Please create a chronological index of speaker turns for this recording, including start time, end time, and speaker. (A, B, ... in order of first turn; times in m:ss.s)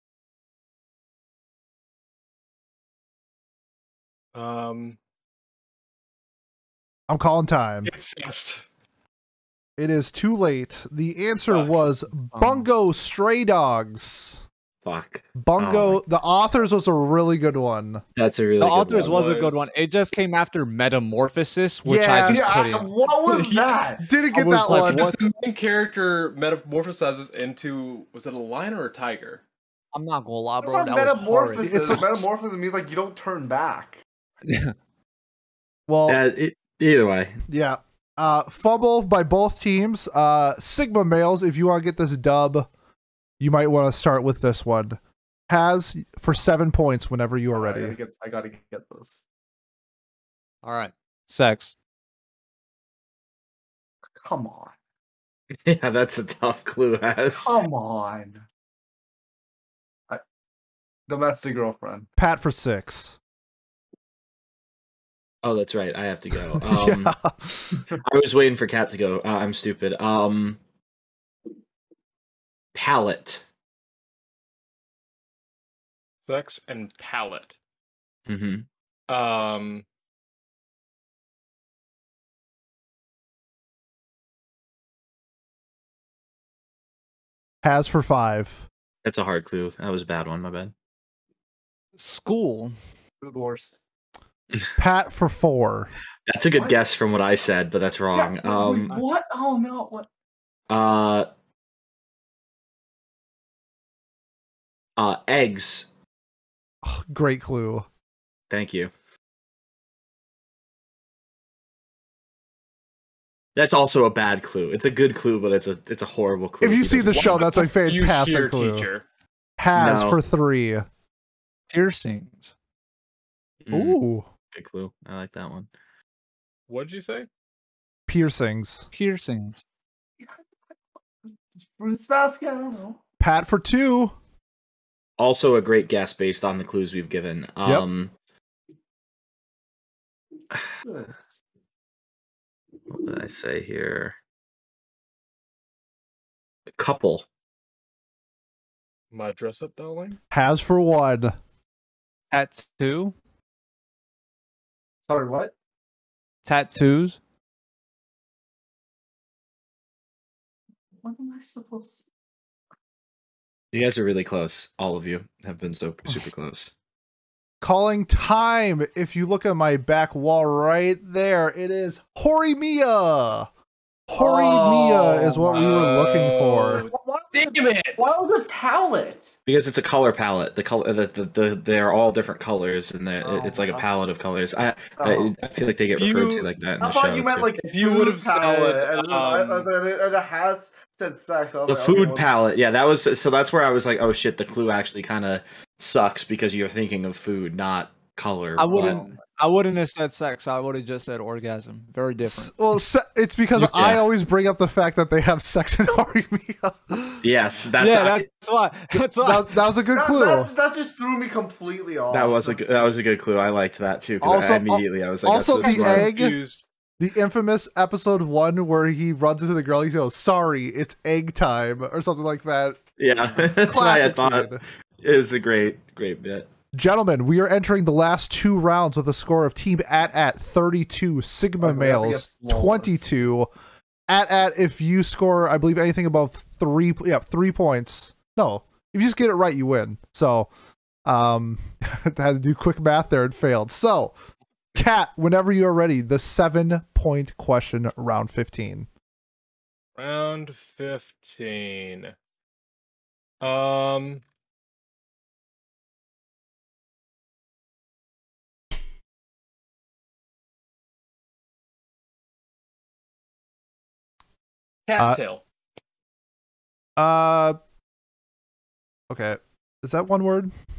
0:04.3-0:05.0 A
0:07.1-0:07.9 B
0:07.9-0:08.6 A
0:09.8-0:14.4 B
0:11.5-0:11.8 A
0:12.4-0:12.7 C
0:14.8-0:16.0 D
0:15.4-0:18.0 B
0:18.2-0:19.4 D
0:18.6-0:22.9 C
0:19.1-0:19.7 A
0:21.8-0:22.5 B
0:22.3-0:24.1 E
0:23.3-0:23.8 A
0:24.0-0:25.2 B
0:24.3-0:25.3 C
0:24.7-0:29.4 A
0:29.9-0:32.0 C
0:30.6-0:34.0 E
0:31.6-0:32.2 B
0:34.5-0:34.7 C
0:35.9-0:36.2 B
0:36.1-0:37.4 D
0:37.5-0:42.7 B
0:43.4-0:48.0 B
0:47.6-0:49.2 E
0:50.6-0:51.8 C
0:54.2-0:54.7 E
0:55.6-0:57.5 D
0:57.4-0:58.4 E
1:01.1-1:02.1 E
1:02.2-1:03.2 B
1:05.4-1:07.2 D
1:06.5-1:07.8 B
1:08.0-1:10.6 D
1:12.7-1:13.4 D
1:16.3-1:17.6 A
1:18.3-1:18.7 D
1:19.1-1:19.8 A
1:27.6-1:28.7 B
1:29.0-1:30.7 D
1:32.0-1:32.8 C
1:33.2-1:33.8 E
1:34.8-1:35.9 B
1:36.3-1:39.0 D
1:38.1-1:40.1 E
1:40.7-1:41.3 D
1:45.0-1:45.9 D
1:46.8-1:47.9 B
1:48.5-1:48.9 D
1:53.6-1:57.5 D
1:56.6-1:58.9 B
1:57.2-1:59.0 A
1:59.6-2:00.9 B
1:59.8-2:00.2 D
2:01.7-2:02.5 C
2:03.6-2:04.0 D
2:03.7-2:04.3 B
2:04.5-2:05.7 D
2:06.7-2:07.3 A
2:08.1-2:08.9 B
2:08.9-2:09.6 C
2:11.7-2:13.0 E
2:13.2-2:14.2 B
2:15.2-2:18.1 D
2:20.8-2:21.4 E
2:22.9-2:24.2 D
2:26.8-2:27.3 D
2:29.1-2:30.2 A
2:30.3-2:31.4 B
2:32.3-2:33.2 C
2:35.0-2:35.5 E
2:36.4-2:37.2 C
2:41.0-2:42.1 E
2:43.7-2:46.7 D
2:47.6-2:53.5 B
2:54.1-2:56.9 B
2:54.2-2:55.7 E
2:55.5-2:58.1 A
2:56.9-2:59.3 E
2:59.5-3:07.5 D
3:03.2-3:03.9 E
3:05.0-3:05.3 E
3:06.0-3:06.5 A
3:06.8-3:12.3 E
3:07.6-3:09.7 A
3:11.7-3:19.0 D
3:18.6-3:22.5 C
3:18.7-3:19.0 E
3:22.2-3:27.2 B
3:23.6-3:24.1 D
3:27.2-3:28.3 D
3:27.8-3:29.6 C
3:29.2-3:30.5 B
3:29.9-3:32.6 E
3:32.1-3:36.1 D
3:34.2-3:36.4 B
3:35.6-3:36.7 A
3:37.0-3:42.8 B
3:43.0-3:46.5 D
3:43.6-3:44.6 B
3:46.7-3:53.5 B
3:51.6-3:53.0 E
3:54.1-4:00.5 B
4:01.1-4:04.2 B
4:04.8-4:08.9 B
4:10.0-4:12.1 A
4:13.4-4:14.2 A
4:24.9-4:25.4 A
4:27.0-4:27.6 B
4:29.1-4:30.5 B